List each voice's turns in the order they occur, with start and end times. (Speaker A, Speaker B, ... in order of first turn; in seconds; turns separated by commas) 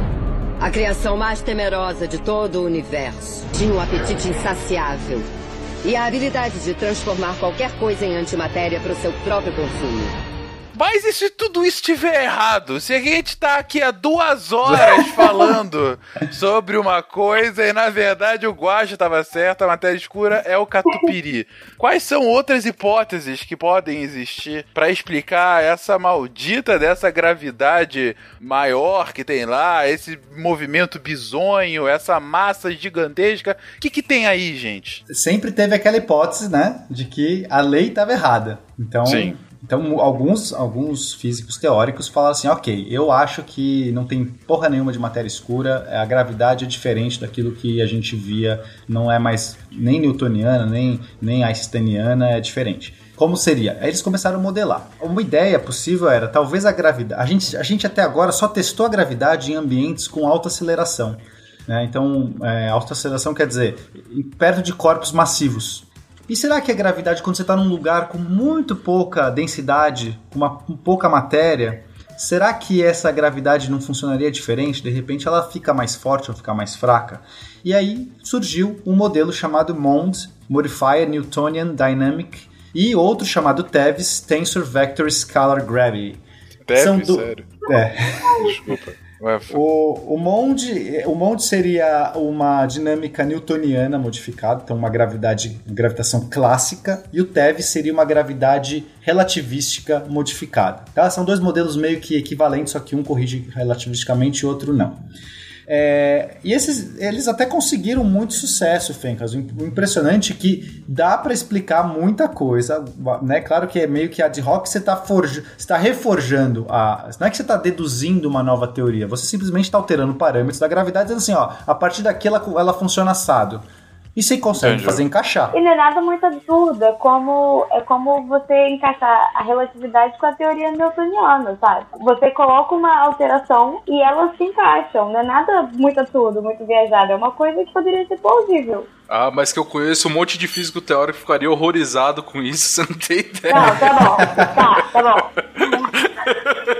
Speaker A: 0.6-5.3, Speaker A: 5.8-10.1, Speaker B: 10.7-35.0, Speaker C: 35.1-86.2, Speaker B: 39.0-39.3, Speaker B: 86.7-87.5, Speaker C: 86.8-88.5, Speaker B: 88.3-89.6, Speaker C: 89.5-105.0, Speaker C: 105.7-125.5, Speaker B: 124.5-125.0, Speaker D: 125.5-138.9, Speaker E: 139.1-144.5, Speaker D: 143.5-145.3, Speaker E: 145.6-146.3